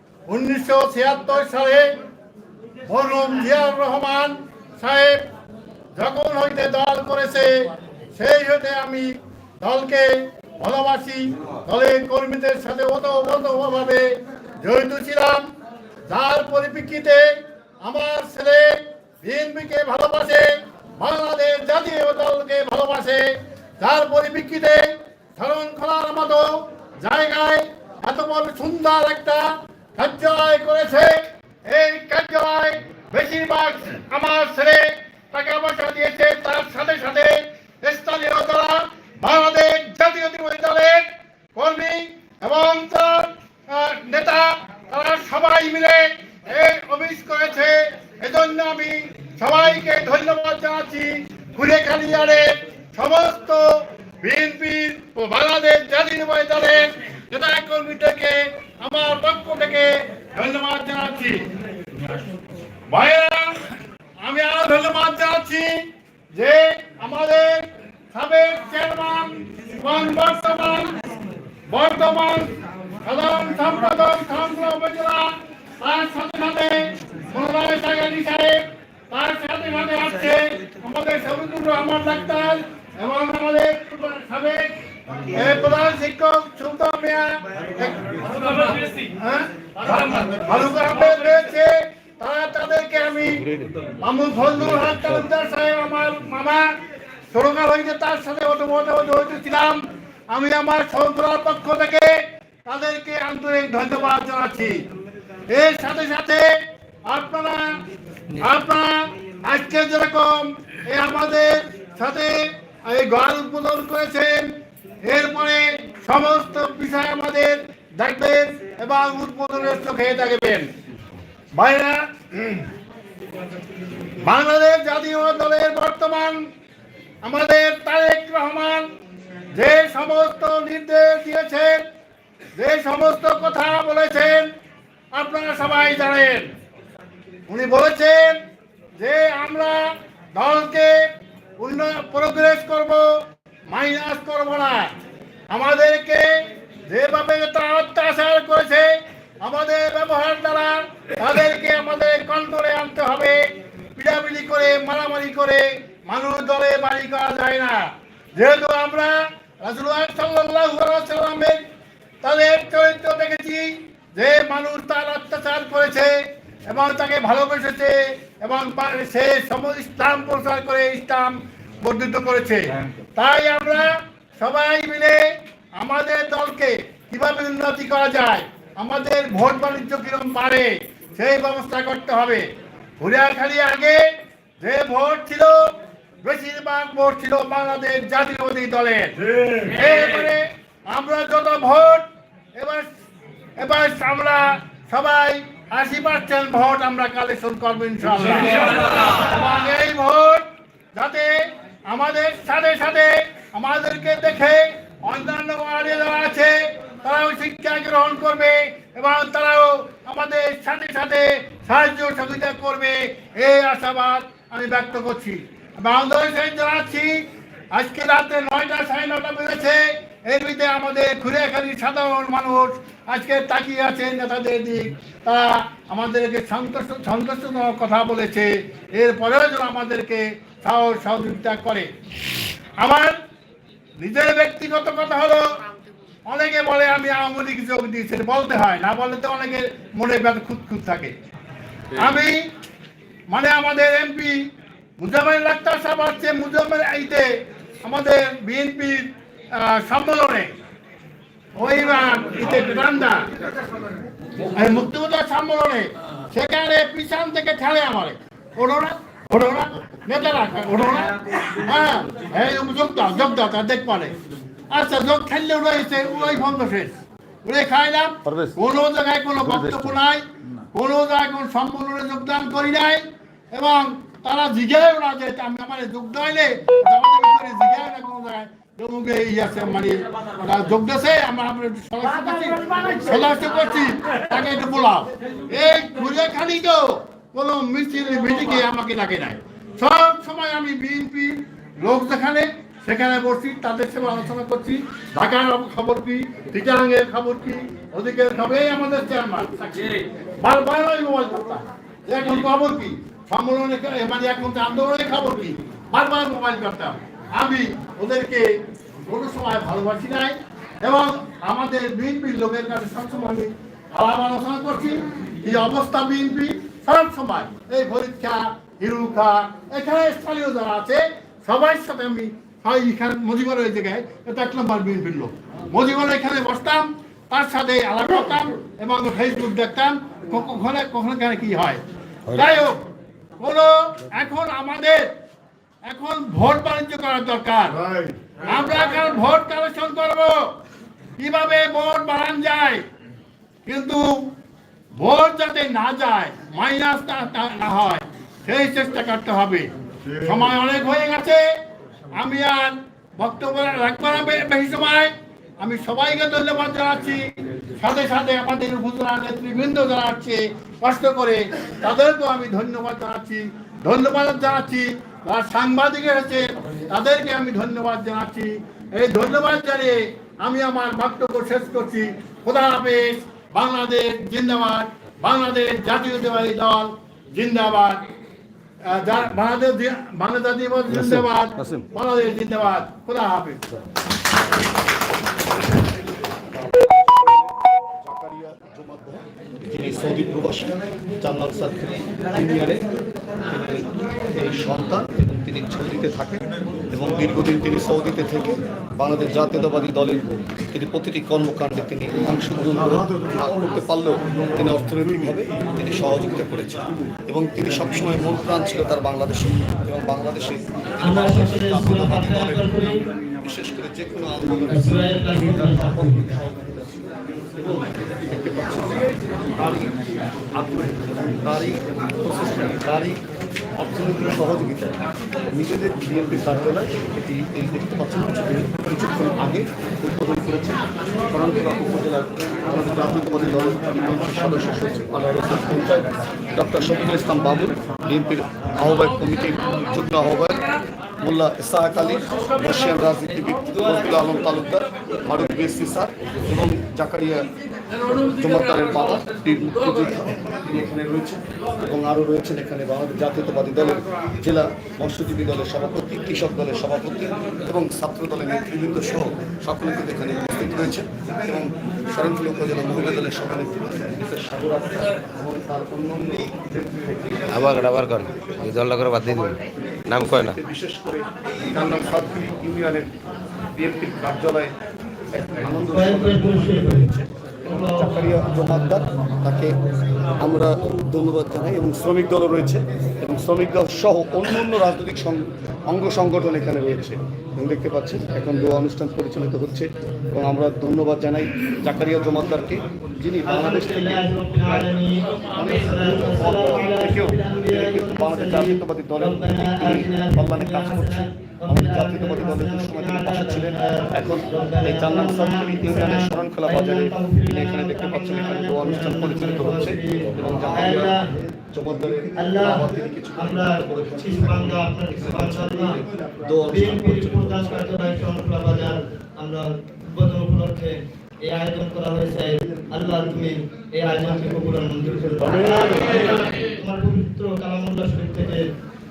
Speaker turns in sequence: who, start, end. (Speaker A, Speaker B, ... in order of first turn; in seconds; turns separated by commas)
Speaker A: 0.3-1.9, Speaker A: 2.9-5.2, Speaker A: 6.0-15.5, Speaker A: 16.1-61.5, Speaker A: 62.9-65.8, Speaker A: 66.3-71.0, Speaker A: 71.7-84.7, Speaker A: 85.3-93.5, Speaker B: 93.3-93.9, Speaker A: 94.0-96.7, Speaker B: 94.5-95.2, Speaker A: 97.3-104.9, Speaker A: 105.5-107.8, Speaker A: 108.3-120.7, Speaker A: 121.5-122.7, Speaker A: 124.2-126.5, Speaker A: 127.2-128.9, Speaker A: 129.5-131.8, Speaker A: 132.6-134.5, Speaker A: 135.1-136.5, Speaker A: 137.5-138.4, Speaker A: 139.0-144.9, Speaker A: 145.5-161.6, Speaker A: 162.2-182.5, Speaker A: 183.0-184.0, Speaker A: 184.6-192.9, Speaker A: 193.6-231.9, Speaker A: 232.8-233.1, Speaker A: 234.0-235.7, Speaker A: 236.3-241.2, Speaker A: 241.9-242.5, Speaker A: 243.3-250.5, Speaker A: 251.6-253.3, Speaker A: 254.4-264.1, Speaker A: 264.7-332.9, Speaker B: 268.2-268.6, Speaker B: 269.4-270.0, Speaker A: 333.4-335.1, Speaker A: 335.9-340.5, Speaker A: 341.2-342.9, Speaker A: 343.6-344.2, Speaker A: 345.0-351.4, Speaker A: 352.2-378.1, Speaker A: 378.9-383.6, Speaker B: 380.9-381.9, Speaker B: 385.8-392.9, Speaker B: 393.4-420.0, Speaker C: 411.0-413.0, Speaker C: 414.7-416.2, Speaker B: 420.5-423.2, Speaker B: 423.8-425.0, Speaker B: 425.5-440.6, Speaker B: 441.2-447.5, Speaker B: 448.1-467.7, Speaker D: 467.5-469.6, Speaker B: 469.2-469.6, Speaker D: 470.1-470.6, Speaker B: 470.1-473.2, Speaker B: 473.8-474.8, Speaker B: 475.3-477.3, Speaker C: 475.9-477.1, Speaker C: 477.6-478.1, Speaker B: 477.9-479.8, Speaker B: 480.4-494.2, Speaker C: 493.5-511.3, Speaker B: 495.5-518.2, Speaker C: 512.4-516.0, Speaker C: 516.6-528.6